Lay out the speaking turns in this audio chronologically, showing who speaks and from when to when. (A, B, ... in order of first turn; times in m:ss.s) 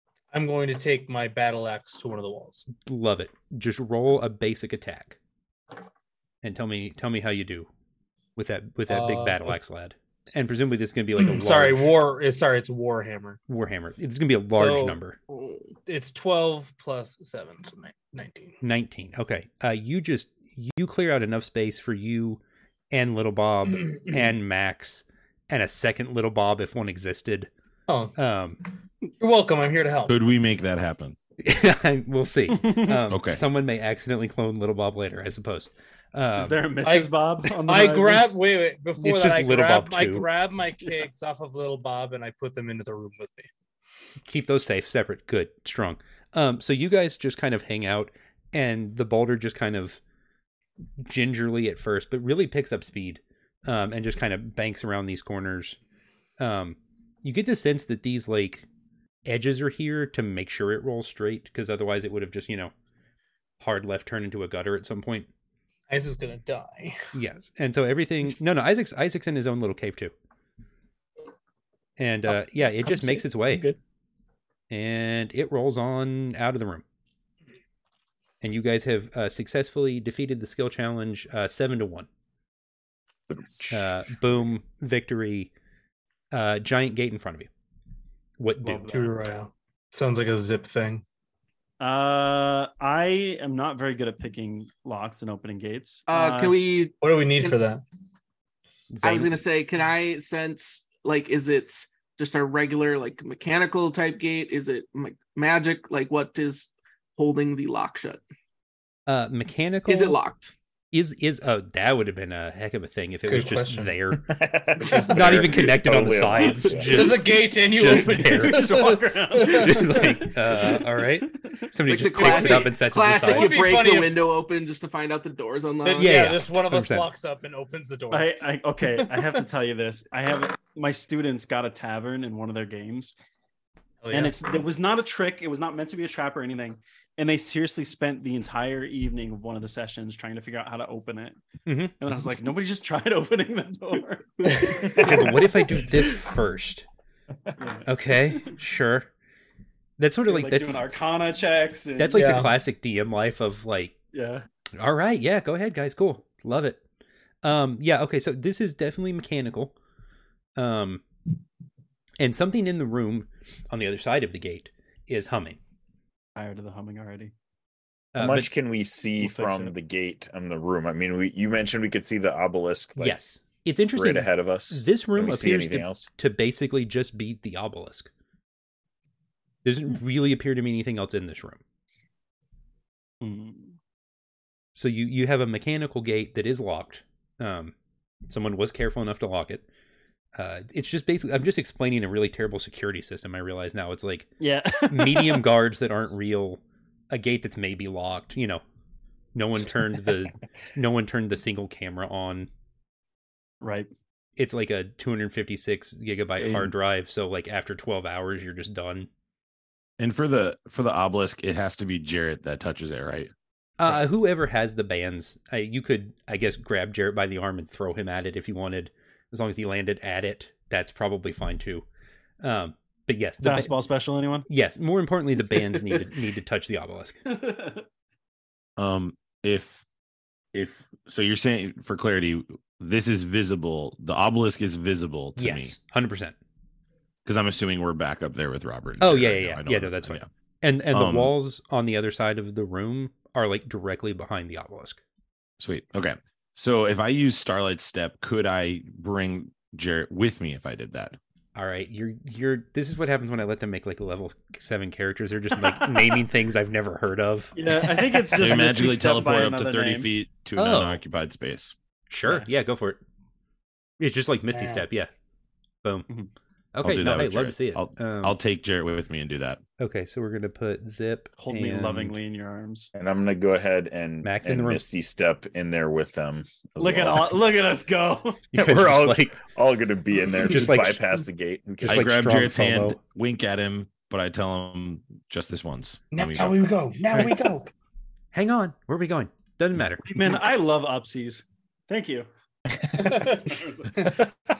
0:00.3-0:02.6 A
0:02.8-0:05.2 B
0:06.4-0:07.7 B
0:08.4-0:12.0 B
0:08.9-0:09.6 A
0:11.2-0:13.4 A
0:13.5-0:15.2 B
0:14.6-0:15.0 A
0:15.3-0:15.7 C
0:15.9-0:18.6 A
0:18.6-0:27.5 B
0:27.9-0:28.2 A
0:28.2-0:28.6 B
0:29.2-0:30.2 A
0:30.1-0:31.2 D
0:31.4-0:36.6 B
0:32.5-0:33.0 E
0:33.1-0:33.4 D
0:36.4-0:38.3 E
0:36.8-0:37.1 A
0:37.6-0:43.5 A
0:39.0-0:40.3 B
0:44.3-0:50.0 B
0:51.0-0:55.8 B
0:56.4-0:58.7 B
0:59.3-1:02.7 B
1:03.6-1:05.3 B
1:05.9-1:07.0 A
1:07.1-1:10.1 B
1:12.0-1:13.7 B
1:12.9-1:13.8 F
1:14.7-1:16.8 B
1:18.4-1:22.1 B
1:23.3-1:24.2 F
1:23.7-1:25.5 B
1:26.3-1:27.5 B
1:28.4-1:29.1 B
1:28.7-1:31.0 A
1:31.8-1:36.6 E
1:36.1-1:37.6 C
1:37.0-1:37.8 A
1:38.9-1:39.4 B
1:39.0-1:48.2 C
1:49.1-1:50.2 B
1:49.9-1:50.5 C
1:50.9-1:54.3 B
1:53.3-1:53.9 A
1:54.2-1:57.2 F
1:54.8-1:55.2 A
1:55.1-1:58.6 B
1:56.9-2:00.2 A
1:57.8-2:01.5 E
1:59.5-2:03.6 B
2:01.8-2:06.2 C
2:02.2-2:04.3 A
2:05.8-2:08.3 A
2:06.0-2:07.1 B
2:08.1-2:13.1 E
2:08.9-2:09.3 A
2:14.0-2:14.4 A
2:14.1-2:21.4 E
2:21.7-2:21.9 B
2:22.0-2:25.4 E
2:24.5-2:25.3 A
2:25.0-2:26.9 B
2:27.6-2:28.5 E
2:27.9-2:29.1 B
2:30.0-2:30.9 B
2:30.3-2:32.4 E
2:32.0-2:33.9 B
2:32.1-2:32.5 A
2:34.1-2:34.5 E
2:34.8-2:36.8 B
2:37.4-2:39.8 B
2:40.6-2:41.0 B
2:42.2-2:45.6 B
2:46.4-2:47.3 E
2:48.2-2:48.5 B
2:48.2-2:53.2 F
2:49.2-2:49.7 E
2:53.0-2:58.1 B
2:54.0-2:56.1 F
2:59.6-3:01.6 B
3:03.2-3:03.8 E
3:04.8-3:07.7 B
3:08.3-3:09.6 B
3:10.4-3:14.3 B
3:14.4-3:15.5 E
3:14.9-3:16.6 B
3:17.1-3:18.6 B
3:19.4-3:22.5 B
3:23.6-3:23.9 E
3:24.4-3:29.1 B
3:26.4-3:26.7 D
3:30.0-3:33.3 D
3:33.8-3:41.8 B
3:42.4-3:43.7 B
3:43.4-3:44.5 E
3:44.5-3:47.2 B
3:47.3-3:47.9 E
3:48.8-3:49.8 D
3:50.5-3:55.8 D
3:55.4-3:56.4 B
3:57.2-4:00.3 D
3:59.0-4:05.0 B
4:00.9-4:01.3 D
4:05.6-4:11.2 D
4:11.6-4:17.6 B
4:17.6-4:20.1 E
4:18.3-4:21.8 D
4:20.6-4:21.0 B
4:22.1-4:23.0 B
4:24.0-4:25.1 B
4:24.5-4:24.8 A
4:26.7-4:28.4 B
4:26.8-4:29.6 D
4:29.8-4:32.2 B
4:31.4-4:32.9 E
4:33.0-4:37.3 F
4:34.2-4:34.8 B
4:36.8-4:38.4 E
4:38.5-4:39.4 B
4:38.6-4:42.2 F
4:40.5-4:41.0 B
4:41.8-4:43.0 B
4:41.9-4:46.7 D
4:46.1-4:47.7 A
4:48.3-4:50.1 B
4:50.0-4:52.3 E
4:53.0-4:54.2 A
4:53.2-4:54.2 E